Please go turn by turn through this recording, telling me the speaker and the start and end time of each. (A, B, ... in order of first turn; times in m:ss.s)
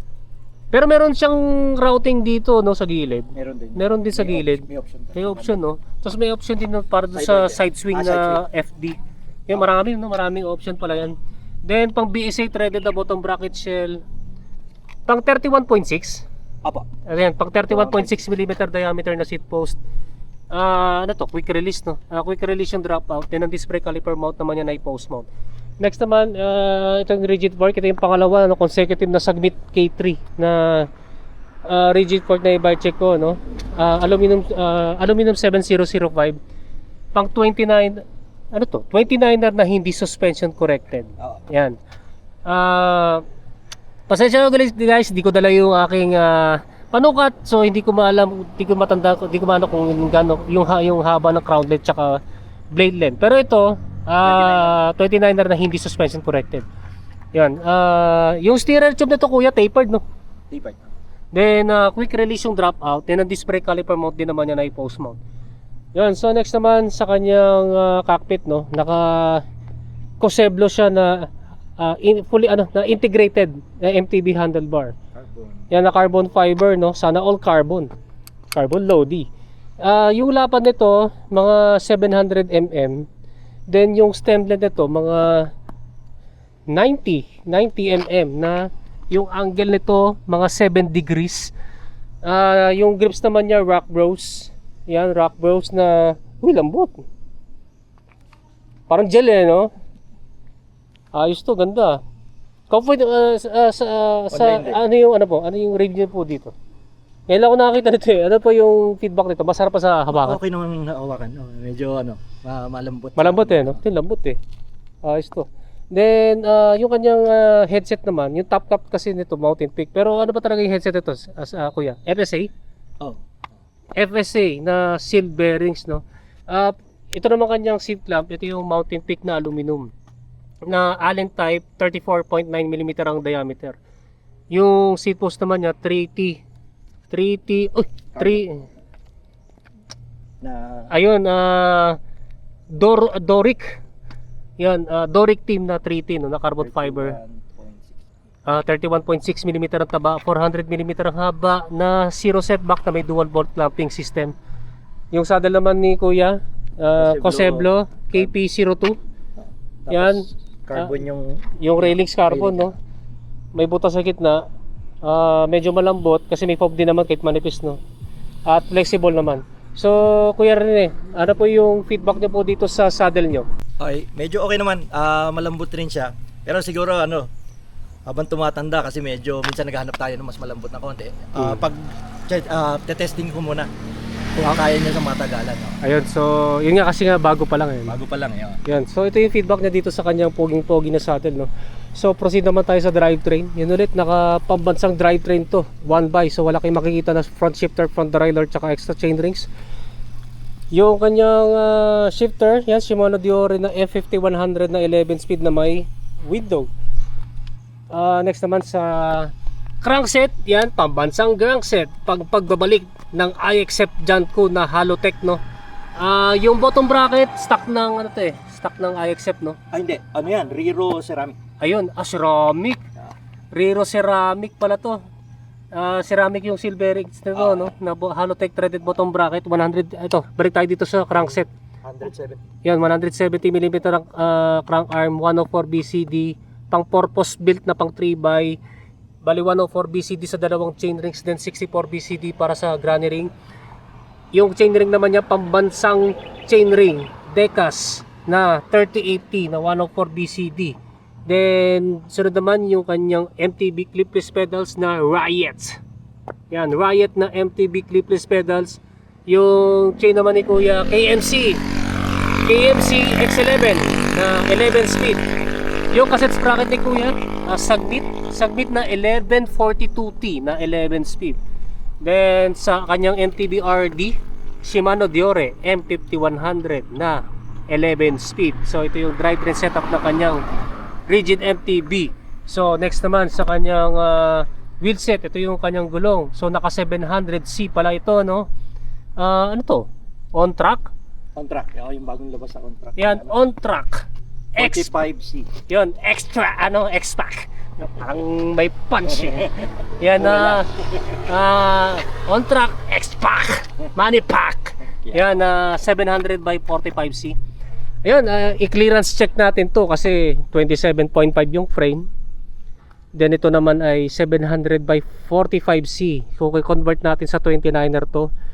0:00.7-0:14.0 A
0:03.3-0:05.6 B
0:07.1-0:08.4 B
0:15.1-0:16.2 A
0:17.0-0:19.8 A
0:17.7-0:18.2 B
0:20.5-0:25.3 A
0:25.8-0:30.9 A
0:31.6-0:36.4 A
0:37.1-0:41.8 A
0:41.2-0:41.4 B
0:42.4-0:43.2 A
0:44.1-0:52.2 A
0:52.7-0:56.6 A
0:54.2-0:54.8 B
0:57.3-1:00.0 A
1:00.5-1:00.8 B
1:01.3-1:05.2 A
1:05.9-1:09.4 A
1:10.2-1:11.3 A
1:11.8-1:14.9 A
1:15.1-1:15.6 B
1:15.7-1:17.9 A
1:18.5-1:19.2 A
1:19.8-1:23.0 A
1:23.7-1:25.5 A
1:26.7-1:31.5 A
1:32.2-1:36.9 A
1:38.9-1:39.7 A
1:41.1-1:42.0 A
1:42.7-1:46.5 A
1:44.3-1:44.8 B
1:47.3-1:50.4 A
1:50.1-1:53.8 B
1:53.2-1:54.4 A
1:55.0-2:02.5 A
2:04.0-2:09.9 A
2:10.7-2:13.8 A
2:14.5-2:16.4 A
2:17.1-2:18.7 A
2:18.2-2:18.4 B
2:20.4-2:20.9 B
2:20.9-2:22.0 A
2:22.7-2:23.8 A
2:24.6-2:27.2 A
2:26.6-2:28.2 B
2:28.4-2:34.3 A
2:35.1-2:39.0 A
2:36.9-2:38.3 B
2:39.4-2:42.7 B
2:39.9-2:41.0 A
2:41.6-2:42.7 A
2:43.5-2:44.4 A
2:45.0-2:47.8 A
2:48.5-2:53.5 A
2:53.8-2:57.3 B
2:58.1-3:03.7 B
3:01.4-3:01.7 A
3:04.4-3:05.8 B
3:05.8-3:07.9 A
3:07.9-3:08.6 B
3:08.6-3:19.5 A
3:20.7-3:26.7 A
3:27.9-3:35.4 A
3:36.0-3:39.6 A
3:39.7-3:41.4 B
3:41.6-3:42.8 A
3:43.5-3:45.0 A
3:45.7-3:51.5 A
3:47.3-3:47.7 B
3:51.8-3:52.4 B
3:52.6-3:58.6 A
3:59.2-4:03.3 A
4:04.3-4:15.8 A
4:16.5-4:21.6 A
4:22.4-4:25.2 A
4:25.9-4:31.4 A
4:32.0-4:40.4 A
4:41.1-4:48.5 A
4:49.2-4:50.9 A
4:51.4-4:53.3 B
4:53.0-4:54.0 A
4:54.6-4:55.0 A
4:54.6-4:55.5 B
4:55.7-5:07.4 A
4:59.2-5:00.8 B
5:05.0-5:05.4 B
5:08.0-5:12.1 A
5:13.1-5:18.3 A